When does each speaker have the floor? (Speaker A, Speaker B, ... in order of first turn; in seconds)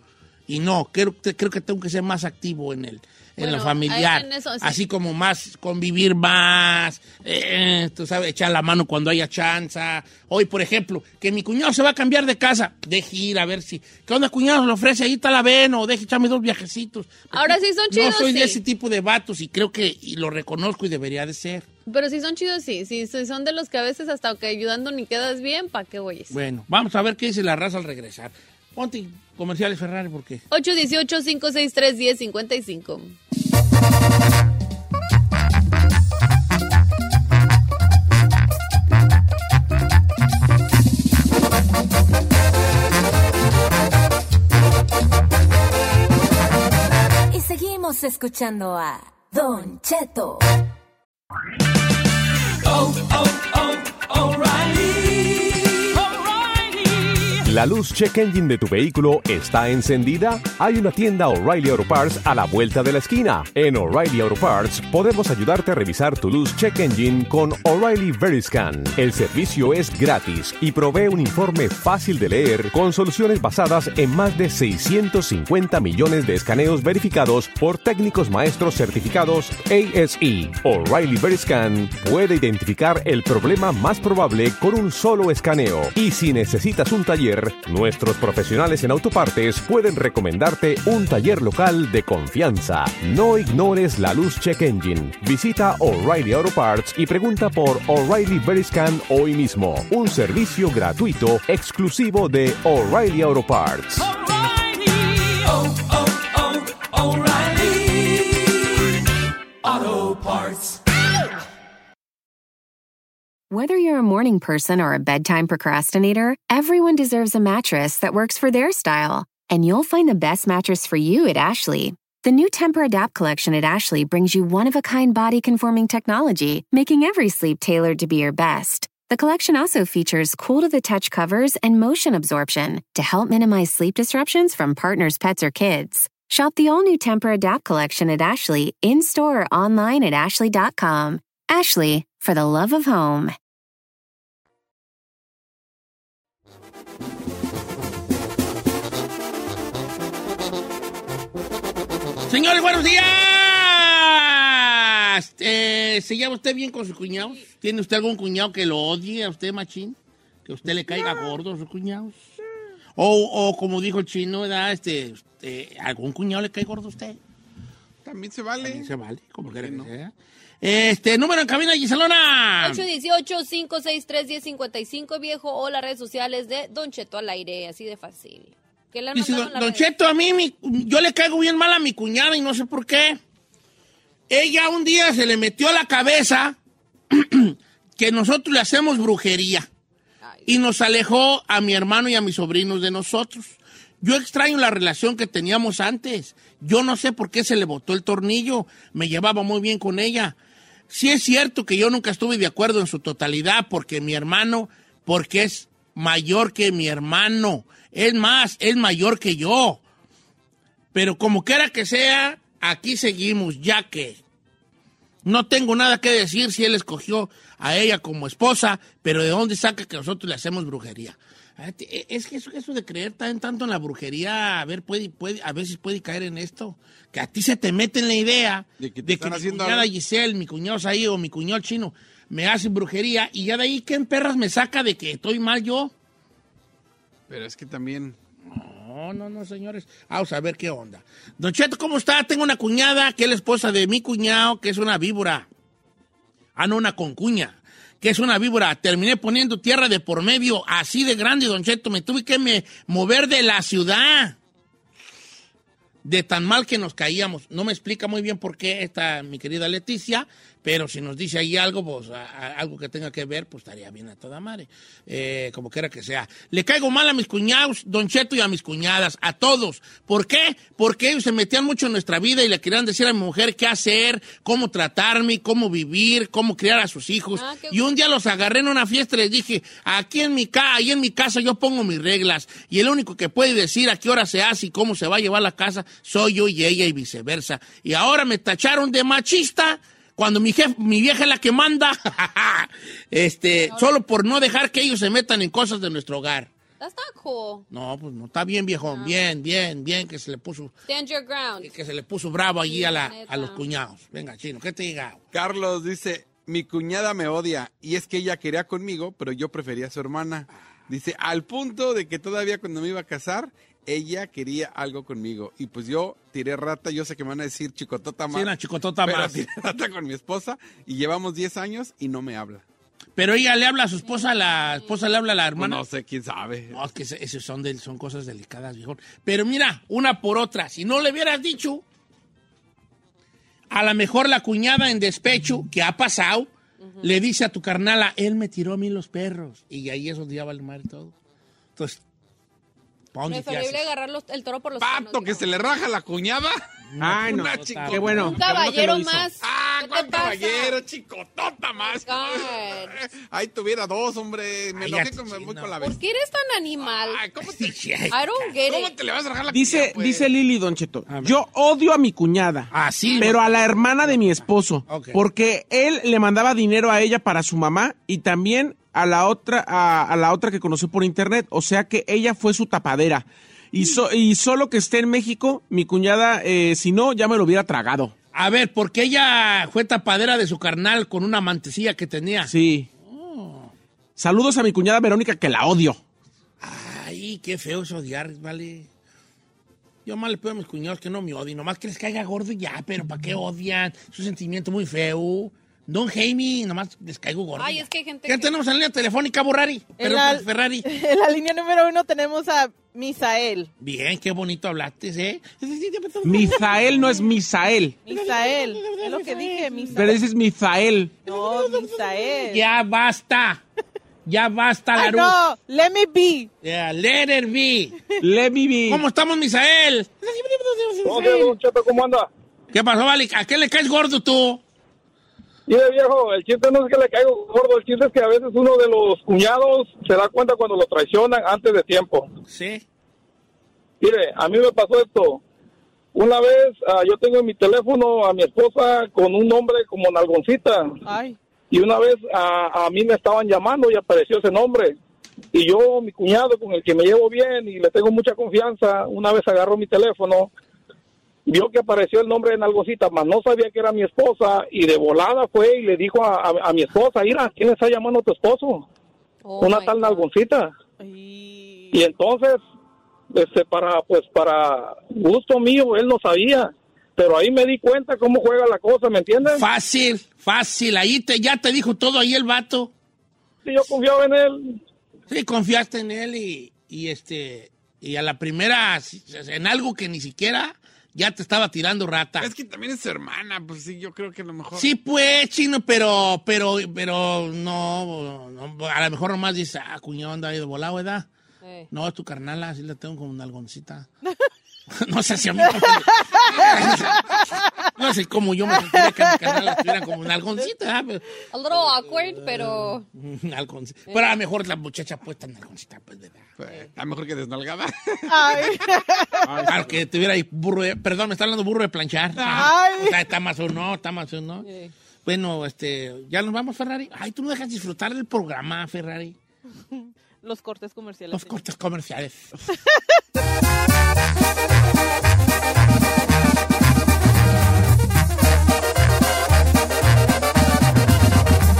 Speaker A: 0.5-21.6, 26.3-30.4, 152.3-162.2, 162.9-167.2, 168.6-172.8, 179.1-183.2, 184.3-186.6, 187.1-189.7, 190.4-200.4, 200.9-209.8, 210.9-214.2, 215.2-235.9, 238.5-245.5, 246.6-254.4, 256.0-296.5, 297.7-300.7, 301.6-305.2, 318.3-319.4, 323.1-325.8, 326.7-331.8, 333.7-336.5, 337.0-341.1, 341.8-342.0, 343.1-343.9, 346.9-349.3, 354.7-355.7, 357.4-358.5, 361.1-361.4, 362.7-365.2, 378.3-382.5, 383.0-383.7, 386.6-388.9, 390.0-400.9, 403.8-407.3, 408.1-410.2, 411.2-413.6, 414.2-415.4, 416.6-418.0, 418.9-421.5, 422.7-424.6, 432.5-432.8, 469.4-472.9, 475.3-482.5, 484.7-491.3, 491.9-494.1, 494.9-497.3, 497.9-506.5, 509.7-514.7, 515.2-519.4, 521.3-522.5
Speaker B: 3.4-4.8, 17.3-18.6, 21.9-26.4, 30.5-33.1, 157.2-157.4, 172.6-179.9, 190.2-190.5, 277.3-277.8, 293.7-293.9, 296.8-297.6, 298.9-299.2, 300.9-301.7, 302.6-303.6, 336.8-337.1, 343.2-345.6, 348.2-350.8, 351.8-353.0, 355.8-357.2, 358.1-358.9, 397.6-398.6, 459.4-460.3, 491.6-491.9, 501.5-503.1, 514.6-514.9
Speaker C: 47.3-50.5, 52.6-56.0, 104.2-108.7, 109.6-110.8
Speaker D: 57.4-104.1
Speaker E: 113.5-143.3
Speaker F: 168.0-168.9, 169.6-169.9, 228.8-229.9, 237.3-238.2, 305.3-318.5, 319.0-322.6, 325.6-326.8, 344.8-346.6, 347.2-356.0, 356.8-357.7, 358.6-360.3, 482.4-484.9, 506.6-508.7, 512.4-512.8
Speaker G: 347.0-348.4, 359.5-378.1, 382.5-382.9, 384.2-386.0, 406.2-408.0, 409.9-411.1, 418.2-419.0, 509.4-510.0
Speaker H: 400.0-403.7, 408.1-410.2, 411.2-412.6, 414.9-416.5, 441.1-441.4, 461.0-462.1, 495.6-497.9, 498.7-500.1, 508.3-509.7, 512.5-513.2, 519.9-521.6
Speaker I: 421.0-422.3, 425.7-432.3, 434.0-435.4, 436.1-440.9, 441.7-444.9, 445.5-450.5, 451.4-458.8, 459.6-460.7, 461.9-462.6, 463.3-469.6, 473.6-474.8